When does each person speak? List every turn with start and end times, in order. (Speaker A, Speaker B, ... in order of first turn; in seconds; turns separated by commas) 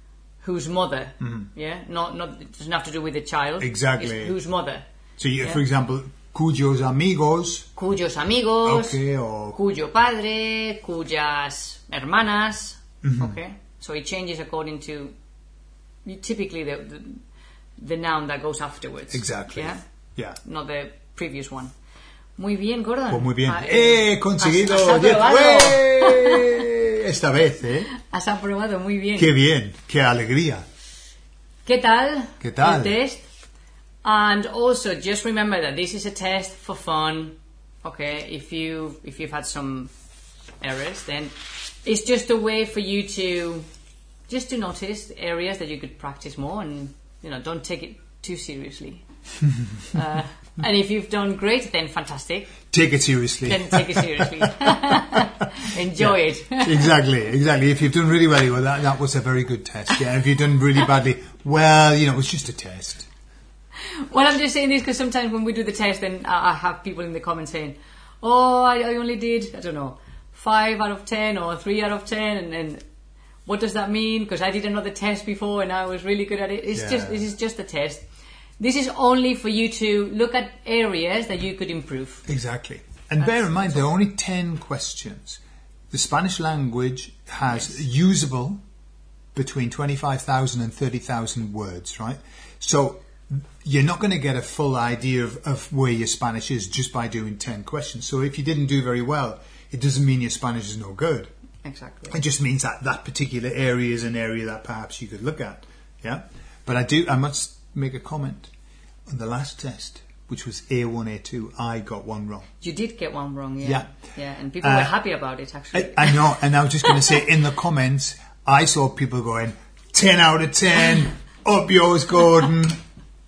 Speaker A: 0.4-4.8, Speaker B: 1.2-1.5, Speaker B: 3.6-4.4, Speaker B: 5.2-7.7, Speaker A: 7.8-9.0, Speaker B: 8.6-9.6, Speaker A: 9.5-15.1, Speaker B: 13.0-13.4, Speaker A: 16.1-17.2, Speaker A: 17.8-19.8, Speaker B: 19.1-20.4, Speaker A: 20.4-21.7, Speaker A: 22.4-26.6, Speaker B: 23.1-27.9, Speaker A: 27.9-29.4, Speaker B: 29.2-30.6, Speaker A: 31.7-33.2, Speaker B: 32.4-33.0, Speaker A: 34.0-39.9, Speaker A: 40.6-43.7, Speaker A: 44.3-49.0, Speaker A: 49.9-52.6, Speaker B: 52.7-55.3, Speaker A: 53.4-56.9, Speaker B: 56.0-63.1, Speaker A: 63.8-72.8, Speaker A: 73.5-78.1, Speaker B: 76.7-77.2, Speaker A: 78.6-82.2, Speaker B: 82.3-85.4, Speaker A: 83.2-83.9, Speaker B: 85.9-88.6, Speaker B: 89.3-101.3, Speaker A: 101.6-102.2, Speaker B: 102.1-108.5, Speaker B: 109.1-112.5, Speaker A: 112.6-117.2, Speaker B: 113.6-113.9, Speaker B: 114.6-114.9, Speaker B: 115.7-122.8